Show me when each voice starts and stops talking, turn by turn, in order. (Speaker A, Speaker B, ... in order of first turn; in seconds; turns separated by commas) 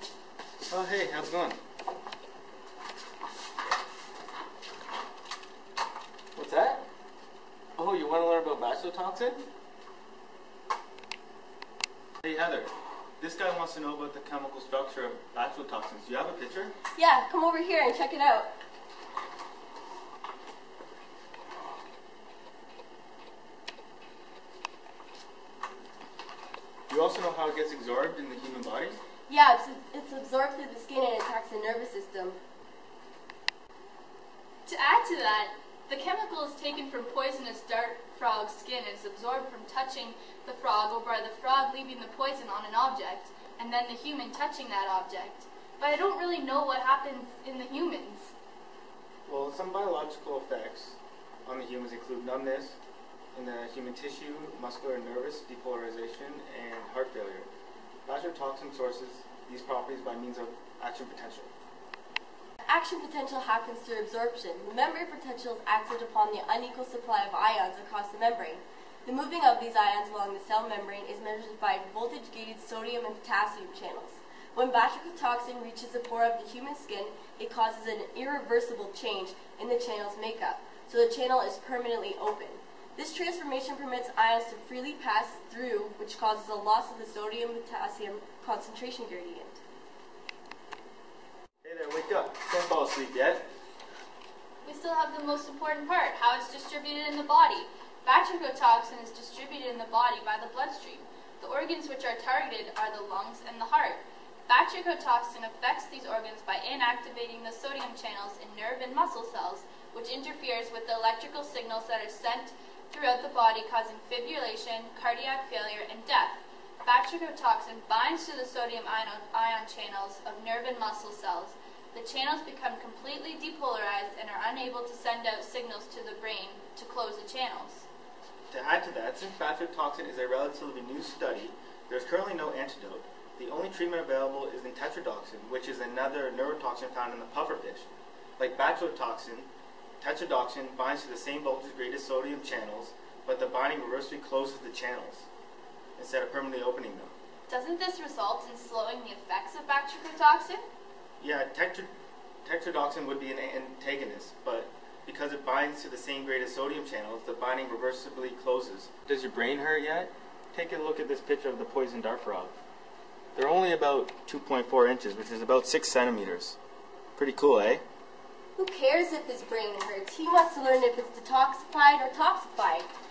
Speaker A: 0.7-1.6, Speaker A: 6.3-6.8, Speaker A: 7.8-9.4, Speaker A: 12.2-16.7, Speaker B: 16.9-18.5, Speaker A: 26.9-29.0, Speaker B: 29.3-32.4, Speaker C: 34.6-48.3, Speaker A: 49.3-52.8, Speaker A: 53.3-57.5, Speaker A: 58.0-61.5, Speaker B: 62.6-89.6, Speaker A: 91.6-93.5, Speaker C: 94.6-127.8, Speaker A: 128.5-145.3, Speaker A: 146.0-147.1, Speaker C: 147.5-150.6, Speaker A: 151.2-151.9, Speaker A: 152.4-162.5, Speaker A: 163.3-166.6, Speaker A: 167.2-167.8, Speaker B: 168.6-172.9